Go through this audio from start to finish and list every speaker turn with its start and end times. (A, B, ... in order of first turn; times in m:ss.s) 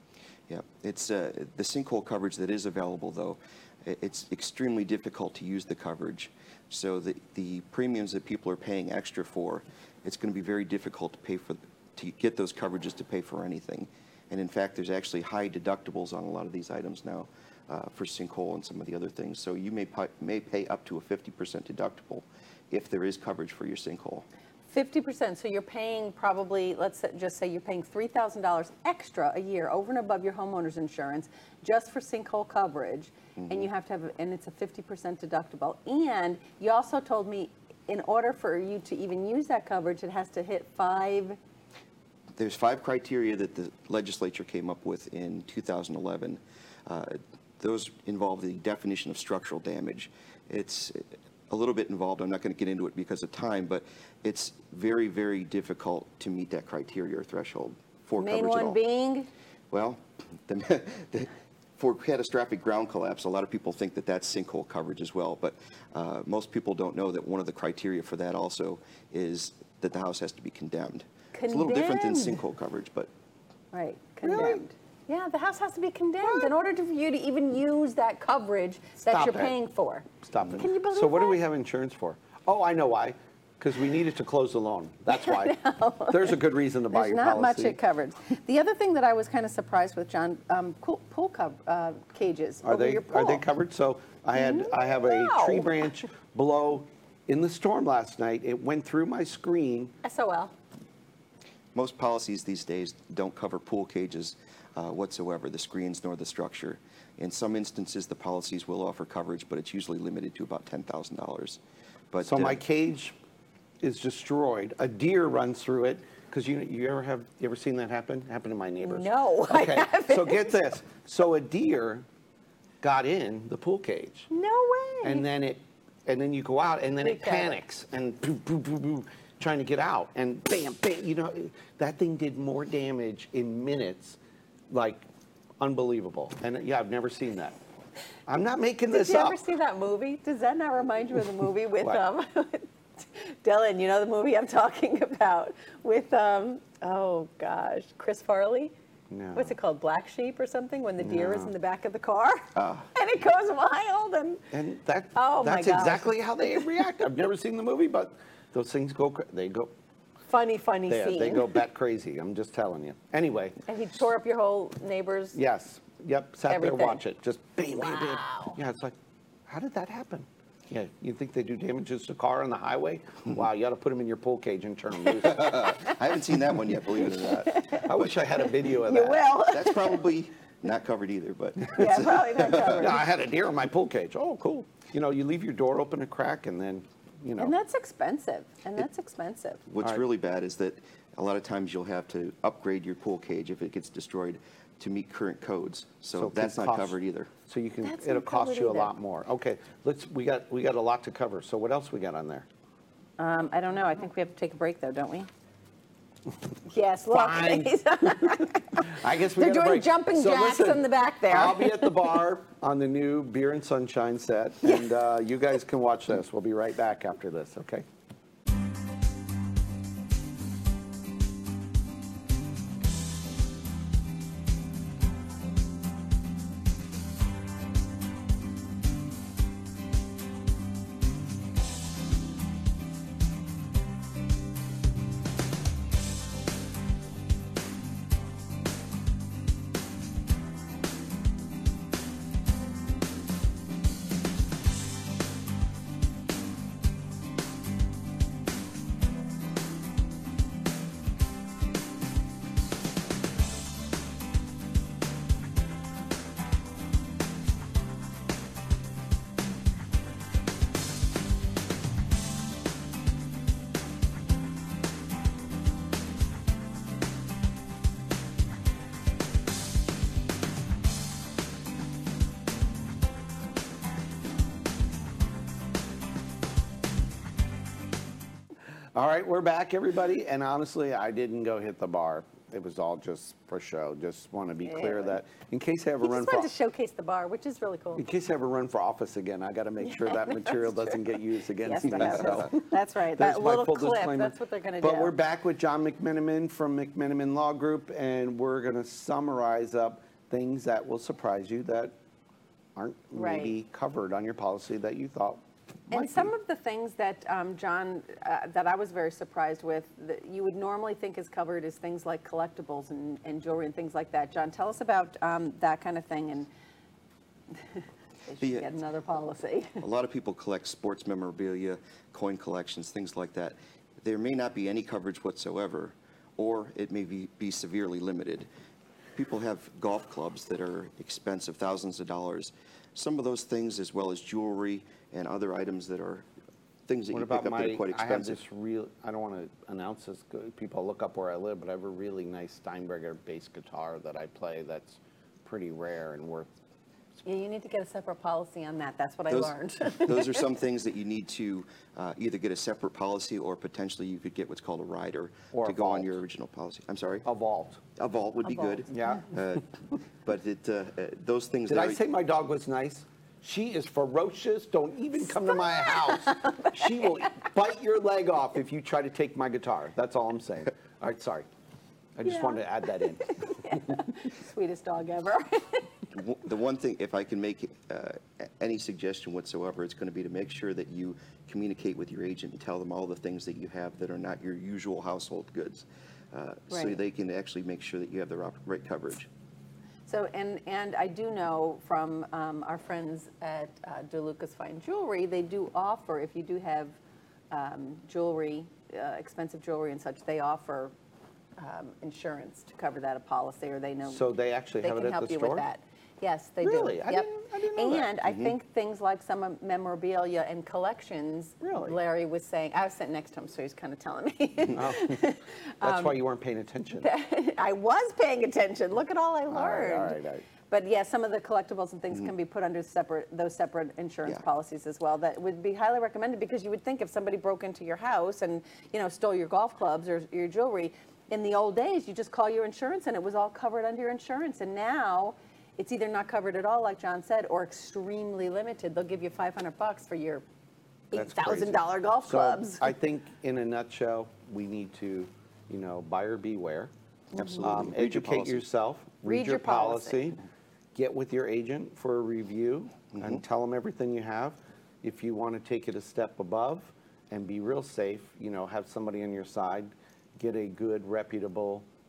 0:00.5-0:24.3 A
0:24.7-0:41.4 B
0:33.4-0:33.7 A
0:42.4-0:58.8 A
0:58.2-0:59.3 B
0:59.7-1:13.1 A
1:11.3-1:12.4 B
1:13.7-1:21.4 B
1:14.2-1:14.6 C
1:19.1-1:19.6 C
1:20.2-1:27.8 C
1:25.1-1:26.4 B
1:26.9-1:33.4 B
1:32.6-1:40.0 C
1:34.4-1:35.8 B
1:40.0-1:40.5 B
1:41.7-1:51.6 A
1:52.1-1:52.6 A
1:52.2-1:53.2 C
1:53.8-2:02.0 C
1:58.8-2:00.6 B
2:02.8-2:04.3 C
2:04.3-2:05.3 B
2:05.0-2:14.2 C
2:07.0-2:07.6 B
2:14.7-2:15.0 C
2:15.6-2:17.6 C
2:18.3-2:19.4 C
2:18.9-2:28.7 B
2:29.1-2:29.5 C
2:29.4-2:34.4 B
2:31.0-2:31.5 C
2:32.6-2:32.9 A
2:34.5-2:39.7 C
2:35.2-2:36.1 B
2:40.3-2:41.6 B
2:40.9-2:43.6 C
2:43.7-2:45.4 B
2:45.4-2:49.0 C
2:46.5-2:47.0 B
2:47.8-2:48.6 B
2:49.5-2:55.5 C
2:55.2-2:58.2 A
2:57.4-2:57.9 B
2:57.8-2:59.2 C
2:58.6-3:00.0 B
2:59.5-3:02.9 A
3:01.7-3:03.1 B
3:02.7-3:07.5 C
3:07.4-3:09.6 B
3:09.7-3:17.3 A
3:16.2-3:17.0 C
3:17.5-3:22.5 C
3:17.8-3:18.9 B
3:23.2-3:25.3 B
3:26.7-3:31.9 B
3:27.1-3:37.8 C
4:38.9-4:46.5 C
4:44.6-4:45.2 B
4:46.0-4:48.0 B
4:48.0-5:01.9 C
4:49.8-4:55.2 B
5:02.8-5:06.3 C
5:03.2-5:03.6 B
5:05.9-5:16.5 B
5:17.5-5:19.8 B
5:18.4-5:18.7 A
5:19.8-5:28.5 A
5:29.2-5:36.3 A
5:36.9-5:38.4 A
5:37.1-5:46.5 C
5:47.2-5:50.5 B
5:49.3-5:57.3 A
5:55.5-5:56.2 C
5:57.2-5:57.8 C
5:58.0-5:59.7 A
5:58.5-5:58.9 B
5:58.9-5:59.4 C
6:00.2-6:02.0 A
6:01.7-6:11.5 C
6:05.5-6:06.8 B
6:12.2-6:14.1 C
6:12.3-6:15.9 B
6:16.1-6:29.3 A
6:26.7-6:27.0 B
6:30.1-6:37.0 B
6:37.5-6:40.9 B
6:41.6-6:44.3 B
6:44.1-6:45.6 C
6:44.8-6:56.2 B
6:46.6-6:48.1 C
6:48.2-6:48.5 A
6:51.6-6:52.0 C
6:54.7-6:55.3 C
6:55.8-6:57.1 C
6:57.0-7:20.4 B
6:59.5-7:00.5 C
7:21.1-7:22.9 B
7:21.1-7:26.9 C
7:27.3-7:27.6 B
7:27.4-7:28.7 A
7:27.6-7:30.4 C
7:29.2-7:30.4 B
7:31.0-7:41.9 C